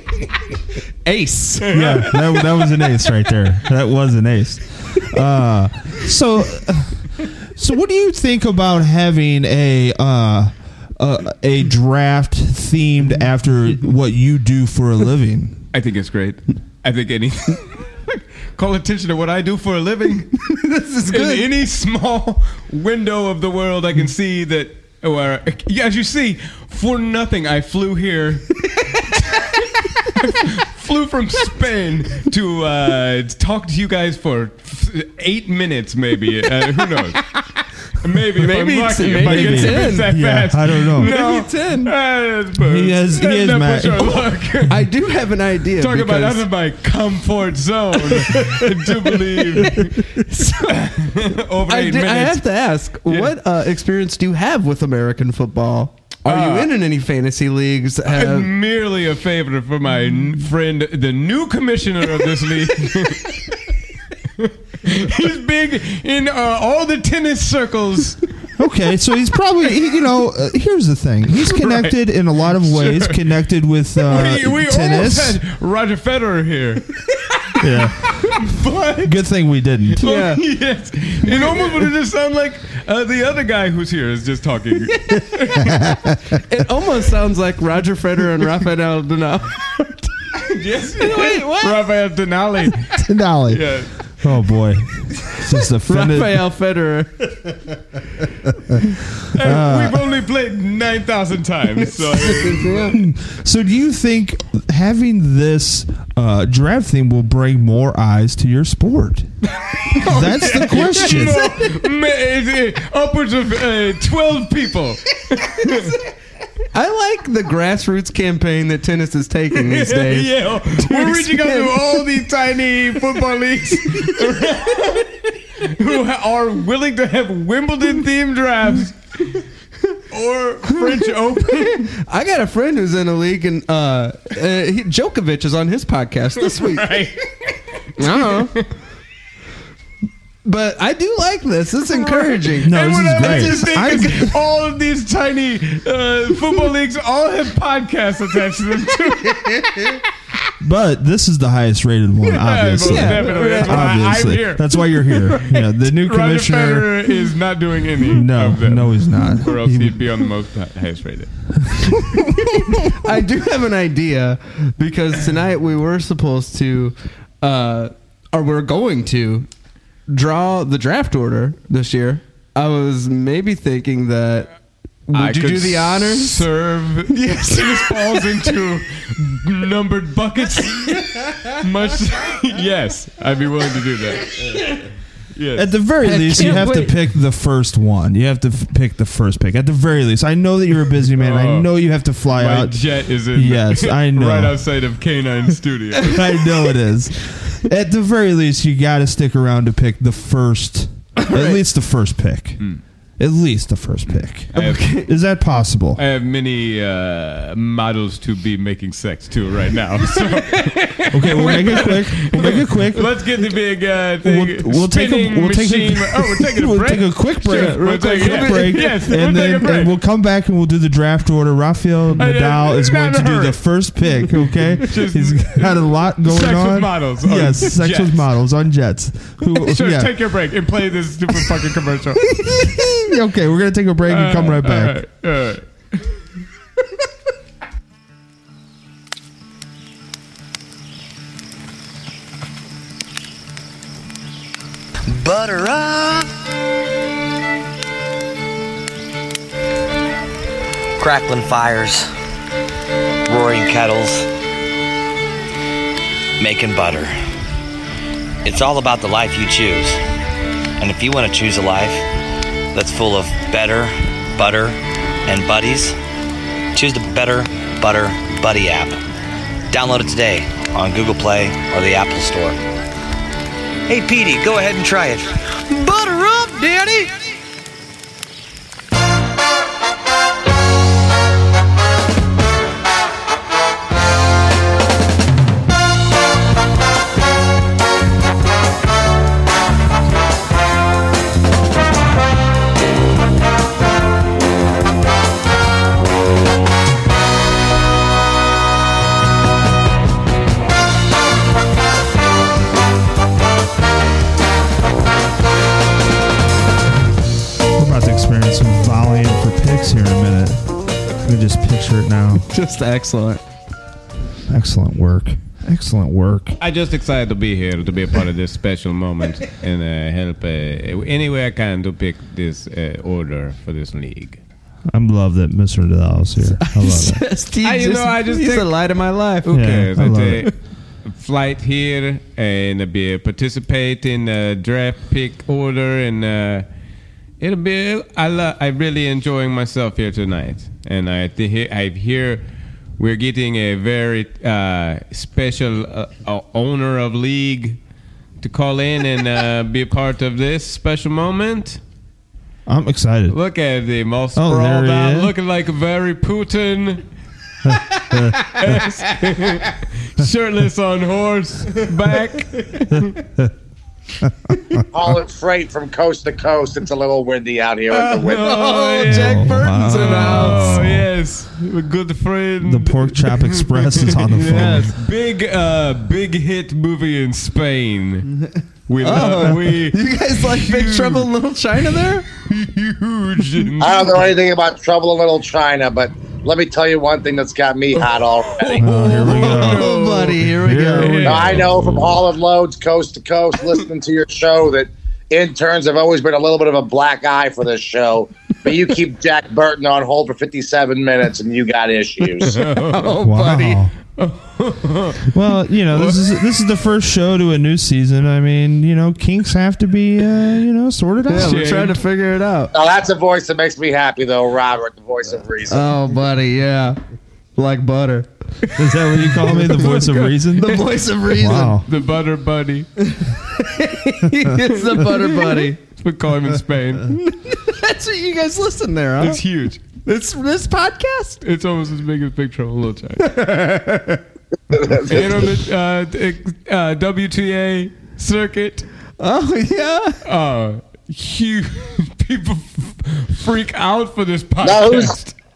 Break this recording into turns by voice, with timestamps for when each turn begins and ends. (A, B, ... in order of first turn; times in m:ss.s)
0:01.0-0:02.1 A
0:01.6-0:02.2 B
0:01.7-0:15.6 C
0:15.7-0:17.8 B
0:18.5-0:20.4 B
0:20.4-0:21.5 A
0:21.1-0:37.3 B
0:38.0-0:44.8 B
0:38.3-0:40.1 A
0:39.2-0:41.1 C
0:40.9-0:41.9 A
0:42.6-0:44.3 C
0:44.7-0:46.5 A
0:45.8-0:52.4 B
0:48.1-0:48.7 A
0:49.3-0:51.1 A
0:51.6-0:58.5 A
0:53.1-0:53.3 B
0:56.2-0:56.7 B
0:58.0-1:03.4 B
1:04.4-1:08.2 B
1:08.6-1:15.4 C
1:11.4-1:11.9 B
1:12.6-1:13.2 B
1:14.0-1:19.2 B
1:17.6-1:20.0 C
1:19.9-1:26.1 B
1:20.0-1:20.4 A
1:21.2-1:21.9 A
1:26.3-1:30.1 A
1:30.4-1:33.9 B
1:31.0-1:31.8 A
1:33.0-1:36.4 C
1:35.8-1:37.4 A
1:39.3-1:42.9 B
1:39.3-1:40.1 C
1:41.8-1:43.0 A
1:42.9-1:49.3 C
1:49.6-1:56.0 B
1:49.9-1:51.7 A
1:50.0-1:51.5 C
1:56.7-2:02.0 A
1:59.5-2:09.4 B
2:03.9-2:04.2 A
2:10.1-2:11.9 B
2:10.7-2:16.9 A
2:16.4-2:18.7 B
2:18.0-2:18.6 A
2:20.4-2:24.3 A
2:21.9-2:30.0 B
2:22.6-2:24.3 C
2:30.6-2:37.1 C
2:32.3-2:41.3 B
2:32.8-2:34.2 A
2:38.0-2:40.0 C
2:41.6-2:42.2 C
2:42.5-2:49.5 A
2:50.1-2:54.5 A
2:55.1-2:56.5 A
2:55.1-3:04.6 B
2:57.1-2:58.6 A
3:05.3-3:05.7 B
3:05.6-3:14.6 C
3:06.0-3:07.0 A
3:06.4-3:06.7 B
3:11.2-3:11.7 B
3:12.3-3:16.3 B
3:16.0-3:22.6 C
3:21.2-3:21.6 A
3:23.2-3:24.5 C
3:24.5-3:25.0 B
3:24.5-3:25.1 A
3:25.0-3:26.0 C
3:25.9-3:39.9 B
3:31.1-3:33.1 C
3:34.2-3:50.1 C
3:37.4-3:39.1 A
3:42.2-3:43.6 B
3:44.8-3:48.2 B
3:49.4-3:52.4 B
3:52.3-3:53.0 A
3:52.8-3:55.0 C
3:54.1-3:55.7 B
4:05.1-4:06.3 D
4:11.0-4:12.1 D
4:13.3-4:14.3 D
4:16.4-4:17.1 D
4:18.4-4:20.0 D
4:20.8-4:22.1 D
4:22.7-4:26.0 D
4:26.7-4:29.0 D
4:29.7-4:32.6 D
4:33.9-4:37.2 D
5:07.8-5:10.7 C
5:11.2-5:12.5 C
5:12.4-5:13.4 A
5:14.5-5:16.6 C
5:16.6-5:24.4 B
5:24.9-5:27.2 C
5:26.6-5:29.6 A
5:27.6-5:28.8 B
5:29.4-5:30.5 B
5:29.5-5:30.4 C
5:31.0-5:36.6 B
5:37.4-5:42.4 B
5:43.0-5:47.8 B
5:48.4-5:51.8 B
5:52.7-5:53.4 C
5:53.3-5:57.0 B
5:54.4-5:55.3 C
5:58.1-5:58.8 C
5:58.3-6:03.2 B
6:03.1-6:03.5 C
6:04.3-6:04.8 C
6:04.9-6:08.6 E
6:07.9-6:18.3 B
6:08.3-6:10.9 A
6:09.1-6:11.1 C
6:12.6-6:14.9 C
6:18.9-6:21.3 B
6:19.0-6:22.3 A
6:22.4-6:24.3 B
6:23.8-6:28.9 E
6:28.5-6:31.8 B
6:28.8-6:32.2 C
6:28.9-6:31.5 A
6:31.2-6:42.6 E
6:42.4-6:43.2 B
6:42.7-6:43.8 A
6:43.2-6:43.9 C
6:44.2-6:45.3 B
6:45.3-6:51.7 C
6:45.9-6:46.2 B
6:51.3-6:52.7 A
6:51.3-6:52.0 B
6:52.7-6:55.9 E
6:55.7-6:57.0 A
6:57.6-6:58.3 A
6:58.7-7:01.9 C
6:59.4-7:01.8 A
6:59.7-7:00.3 B
7:01.8-7:02.9 B
7:03.0-7:05.8 A
7:04.8-7:07.1 B
7:07.0-7:09.4 A
7:09.2-7:09.8 B
7:10.0-7:11.4 A
7:11.4-7:13.6 B
7:13.4-7:14.0 A
7:14.7-7:15.5 E
7:14.9-7:18.9 B
7:19.2-7:20.2 A
7:20.2-7:25.3 B
7:24.6-7:25.1 E